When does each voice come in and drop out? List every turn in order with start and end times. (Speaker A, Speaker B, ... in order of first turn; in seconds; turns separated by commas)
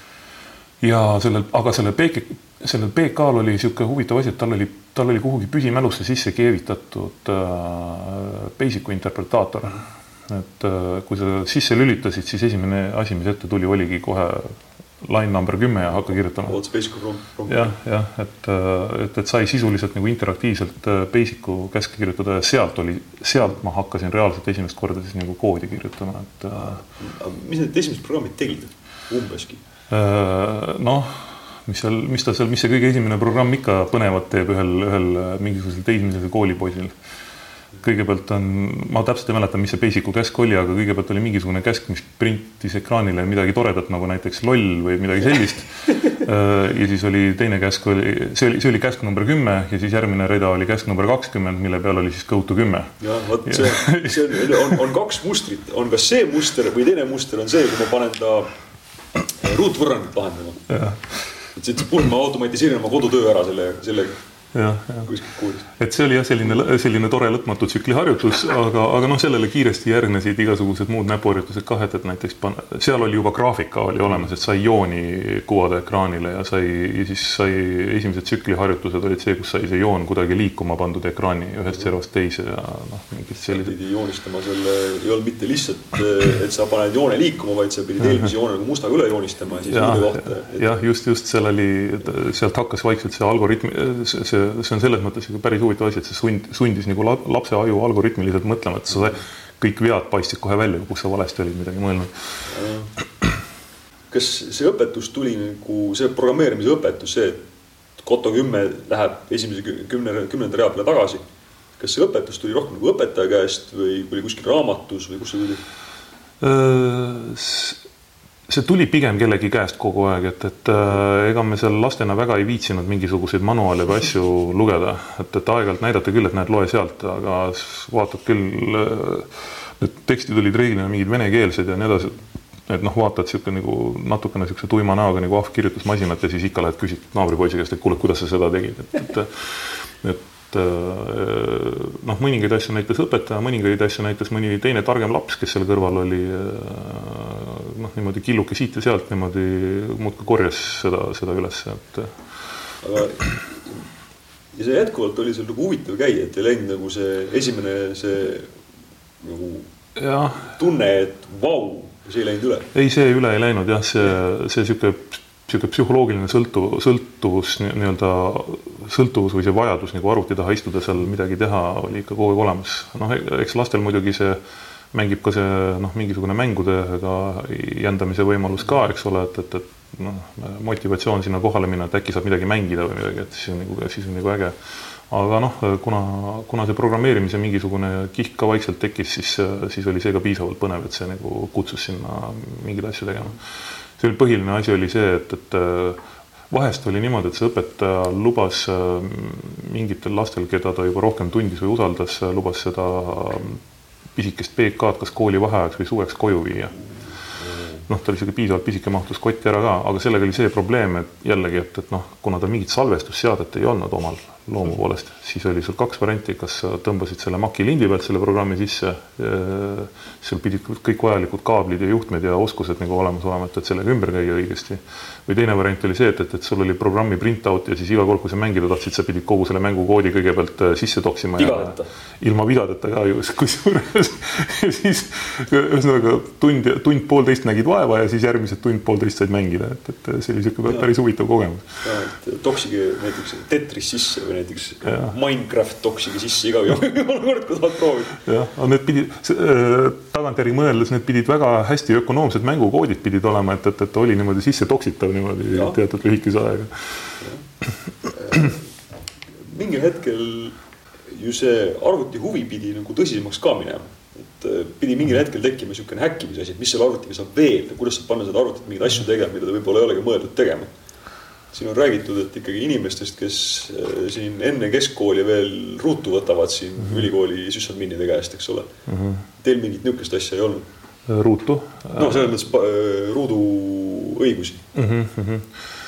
Speaker A: 0.8-16.6, Speaker B: 16.5-17.7, Speaker A: 17.5-26.8, Speaker B: 26.6-29.6, Speaker A: 29.9-37.0, Speaker A: 37.8-54.8, Speaker B: 53.0-58.5, Speaker B: 59.4-60.7, Speaker A: 60.7-61.1, Speaker B: 61.5-64.2, Speaker A: 64.5-65.1, Speaker B: 65.1-65.7, Speaker A: 65.8-83.8, Speaker B: 83.5-90.8, Speaker A: 89.7-102.1, Speaker B: 102.5-102.9, Speaker B: 104.1-107.4, Speaker B: 108.0-111.2, Speaker B: 111.8-115.6, Speaker A: 116.4-117.8, Speaker A: 118.5-152.2, Speaker B: 152.8-153.8, Speaker B: 154.5-158.6, Speaker B: 159.2-159.7, Speaker A: 160.0-160.5, Speaker B: 160.3-162.7, Speaker A: 162.7-174.4, Speaker A: 174.9-184.6, Speaker A: 185.1-193.4, Speaker A: 194.0-203.6, Speaker A: 204.2-206.7, Speaker A: 207.9-241.7, Speaker B: 231.4-231.9, Speaker B: 241.8-248.2, Speaker A: 248.2-257.1, Speaker B: 255.5-255.8, Speaker B: 258.1-258.6, Speaker B: 259.4-260.6, Speaker B: 261.1-270.7, Speaker B: 271.5-278.7, Speaker A: 278.9-279.2, Speaker B: 279.4-280.7, Speaker A: 281.1-282.2, Speaker B: 281.9-284.6, Speaker A: 284.7-285.5